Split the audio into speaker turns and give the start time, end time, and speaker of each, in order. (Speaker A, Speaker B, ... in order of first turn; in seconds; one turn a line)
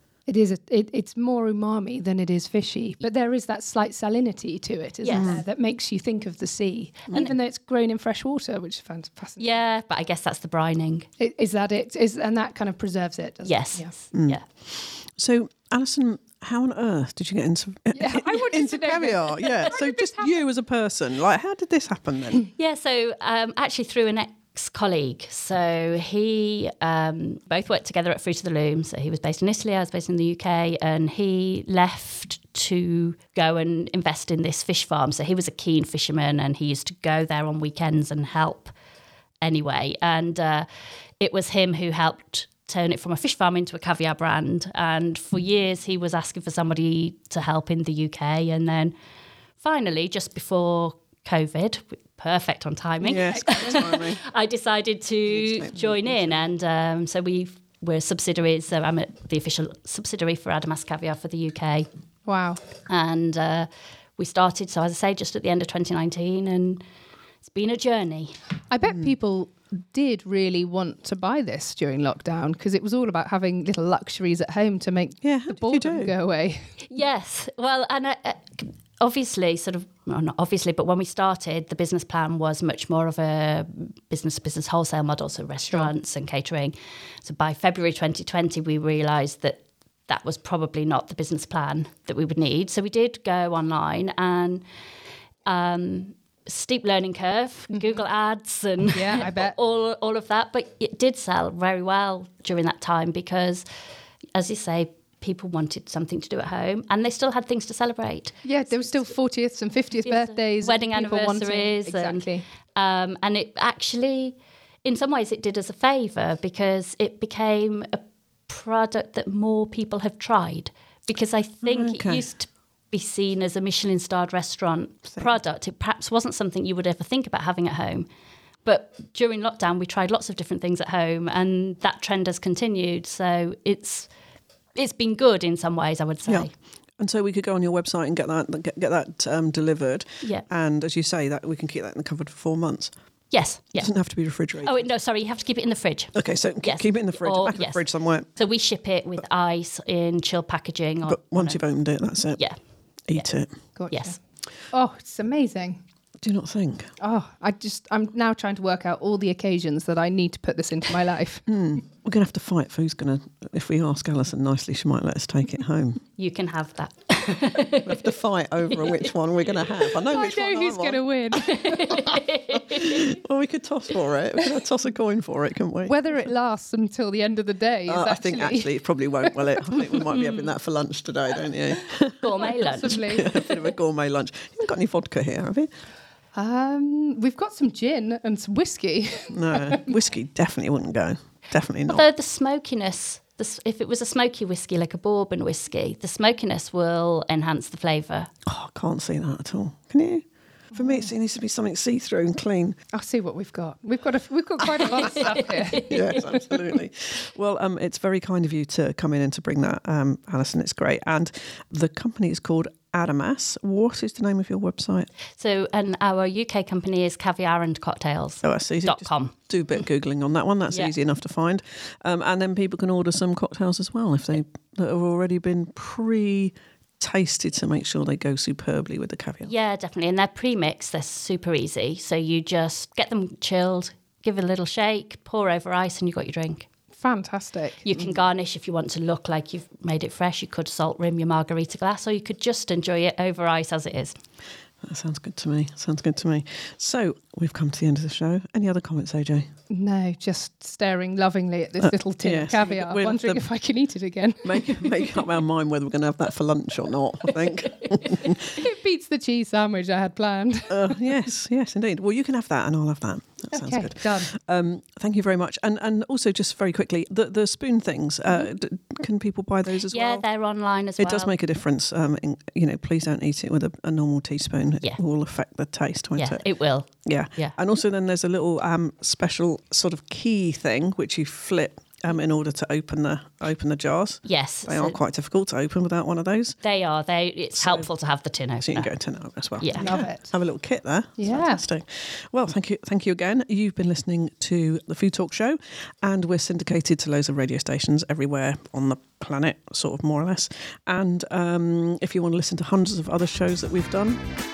Speaker A: 0.3-9.6
Speaker B: 5.0-5.4
Speaker C: 5.1-5.4
Speaker B: 9.4-11.1
Speaker A: 11.2-13.9
Speaker B: 13.4-14.4
Speaker C: 14.1-22.5
Speaker A: 17.9-20.4
Speaker B: 22.5-38.7
Speaker B: 39.4-40.7
Speaker B: 41.2-48.9
Speaker B: 49.6-61.9
Speaker C: 53.0-54.2
Speaker C: 55.4-56.4
Speaker A: 62.2-62.6
Speaker B: 62.9-66.8
Speaker B: 67.4-68.4
Speaker A: 68.7-76.6
Speaker C: 75.2-76.1
Speaker B: 76.9-94.6
Speaker B: 95.4-103.6
Speaker A: 98.9-99.5
Speaker B: 104.3-108.3
Speaker A: 108.4-112.4
Speaker B: 110.0-128.1
Speaker C: 121.6-122.2
Speaker B: 128.6-134.1
Speaker B: 134.8-136.5
Speaker C: 136.2-142.9
Speaker B: 143.3-143.9
Speaker C: 143.8-144.9
Speaker B: 144.6-151.6
Speaker C: 146.1-148.3
Speaker C: 151.0-152.4
Speaker C: 153.1-153.5
Speaker A: 153.8-154.2
Speaker B: 153.9-154.2
Speaker A: 154.7-155.8
Speaker C: 156.2-156.9
Speaker A: 157.0-161.5
Speaker C: 161.5-166.0
Speaker B: 166.2-168.1
Speaker C: 167.8-171.0
Speaker B: 168.7-169.1
Speaker A: 170.0-172.1
Speaker B: 171.4-173.1
Speaker C: 171.9-176.1
Speaker A: 175.8-180.0
Speaker C: 177.9-185.7
Speaker B: 180.1-180.5
Speaker B: 182.2-183.4
Speaker A: 182.4-183.5
Speaker A: 186.3-189.9
Speaker C: 189.3-192.0
Speaker B: 191.9-198.3
Speaker C: 198.4-202.8
Speaker A: 200.7-201.1
Speaker A: 202.9-206.4
Speaker B: 204.8-206.4
Speaker C: 205.8-215.1
Speaker B: 215.4-219.3
Speaker C: 218.4-229.5
Speaker B: 229.4-236.7
Speaker A: 236.9-238.1
Speaker B: 237.8-244.2
Speaker C: 244.8-249.5
Speaker A: 249.7-255.0
Speaker C: 251.8-253.4
Speaker C: 254.4-258.6
Speaker A: 258.5-261.0
Speaker C: 260.7-270.2
Speaker A: 263.5-264.3
Speaker B: 269.9-271.3
Speaker C: 271.0-276.4
Speaker B: 276.2-277.6
Speaker C: 277.0-286.6
Speaker B: 284.2-285.0
Speaker B: 286.6-288.9
Speaker C: 287.6-287.9
Speaker C: 288.6-304.3
Speaker B: 289.6-289.9
Speaker A: 289.8-290.3
Speaker A: 291.2-291.6